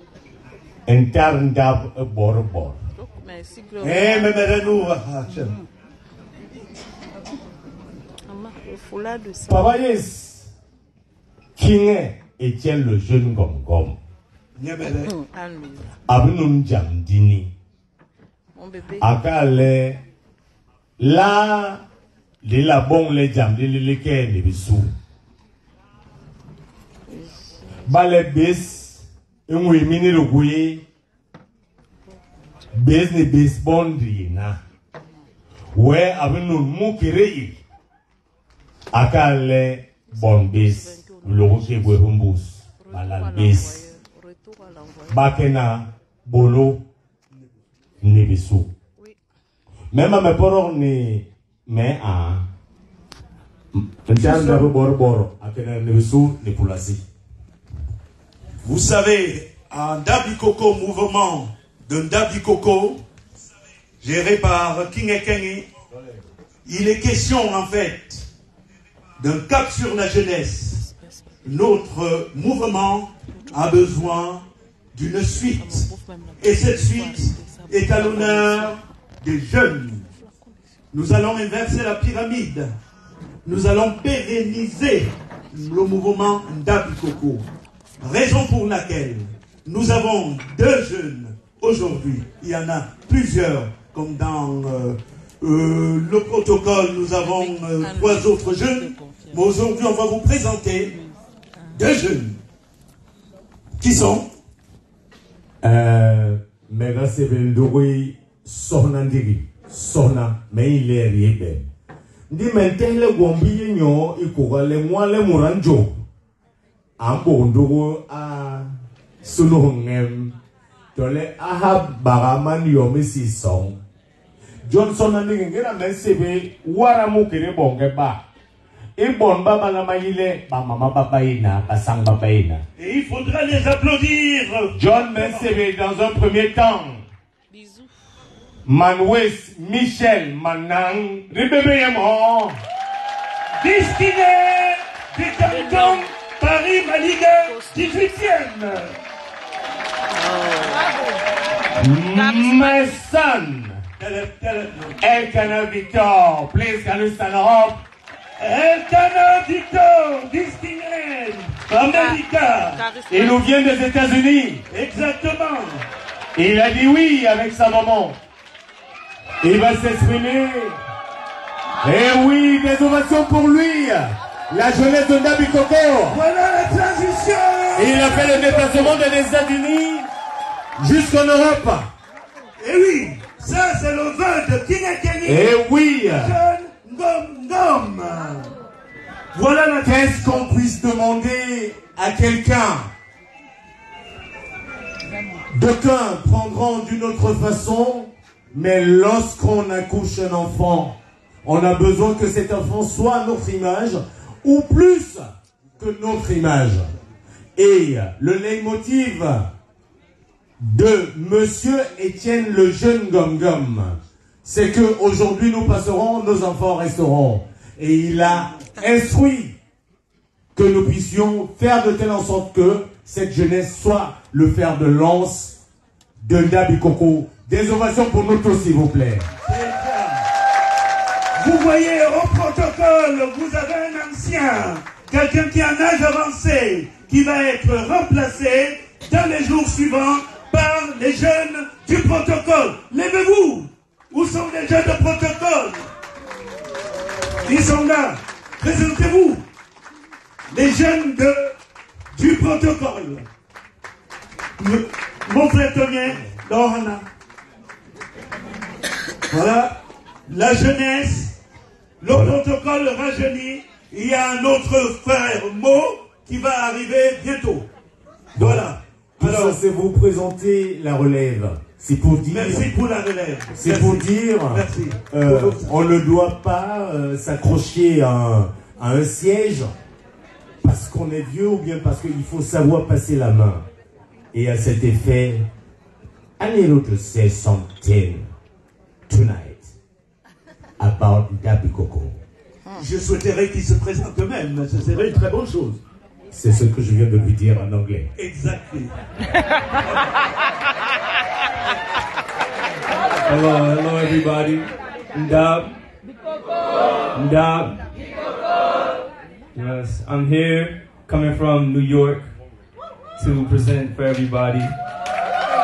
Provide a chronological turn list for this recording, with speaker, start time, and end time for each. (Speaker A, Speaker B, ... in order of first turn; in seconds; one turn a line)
Speaker A: 0.9-2.8
Speaker B: 2.9-4.5
Speaker C: 3.8-5.5
Speaker B: 8.3-9.7
Speaker A: 9.5-10.5
Speaker A: 11.6-14.0
Speaker C: 14.6-15.1
Speaker B: 15.2-15.9
Speaker A: 16.1-17.5
Speaker B: 18.6-19.1
Speaker A: 19.0-20.0
Speaker A: 21.0-21.8
Speaker A: 22.4-24.9
Speaker A: 27.9-30.8
Speaker A: 32.7-34.6
Speaker A: 35.7-37.6
Speaker A: 38.9-43.8
Speaker B: 40.2-42.1
Speaker B: 42.8-45.3
Speaker A: 45.1-46.8
Speaker A: 48.0-48.7
Speaker A: 49.9-52.5
Speaker A: 53.7-57.0
Speaker C: 54.2-54.7
Speaker C: 58.6-63.0
Speaker C: 64.0-65.7
Speaker A: 65.9-66.2
Speaker C: 66.6-68.3
Speaker C: 69.2-70.9
Speaker C: 71.4-80.1
Speaker B: 75.5-78.7
Speaker C: 80.9-82.7
Speaker C: 83.4-87.5
Speaker C: 88.0-101.0
Speaker B: 97.4-99.5
Speaker C: 101.7-102.4
Speaker C: 103.8-104.3
Speaker A: 105.6-111.7
Speaker A: 112.3-116.0
Speaker A: 117.0-118.7
Speaker A: 119.2-120.3
Speaker A: 120.9-123.8
Speaker A: 124.6-128.2
Speaker A: 129.0-132.6
Speaker C: 132.8-135.6
Speaker A: 134.7-137.0
Speaker B: 137.5-137.9
Speaker A: 138.7-142.6
Speaker C: 143.6-148.9
Speaker B: 145.4-146.1
Speaker B: 147.4-148.2
Speaker B: 150.1-150.9
Speaker A: 151.8-153.8
Speaker B: 152.1-152.9
Speaker C: 154.0-155.0
Speaker A: 155.0-157.8
Speaker C: 158.4-162.8
Speaker B: 161.9-163.4
Speaker A: 163.1-164.6
Speaker C: 164.7-165.8
Speaker A: 166.3-168.2
Speaker A: 169.4-170.8
Speaker A: 171.8-176.2
Speaker C: 176.1-179.0
Speaker A: 177.8-180.1
Speaker A: 180.8-181.9
Speaker C: 182.6-188.5
Speaker A: 185.2-186.4
Speaker C: 189.3-190.3
Speaker A: 189.6-192.9
Speaker A: 195.5-206.9
Speaker A: 207.6-209.5
Speaker A: 210.6-219.6
Speaker A: 220.6-225.6
Speaker A: 226.2-229.2
Speaker C: 229.4-230.2
Speaker C: 231.3-245.9
Speaker C: 247.4-249.4
Speaker C: 250.5-251.5
Speaker C: 252.1-253.2
Speaker C: 254.6-257.1
Speaker C: 259.3-261.4
Speaker C: 262.0-267.7
Speaker C: 268.3-269.6
Speaker A: 268.3-272.7
Speaker C: 272.3-276.0
Speaker A: 273.5-279.7
Speaker A: 280.6-283.6
Speaker A: 284.3-285.5
Speaker A: 286.4-288.3
Speaker A: 289.1-289.7
Speaker A: 290.8-292.2
Speaker C: 292.7-295.8
Speaker A: 296.3-298.1
Speaker C: 298.1-298.9
Speaker D: 303.2-305.8
Speaker D: 307.1-307.9
Speaker D: 309.5-312.3
Speaker D: 313.2-314.8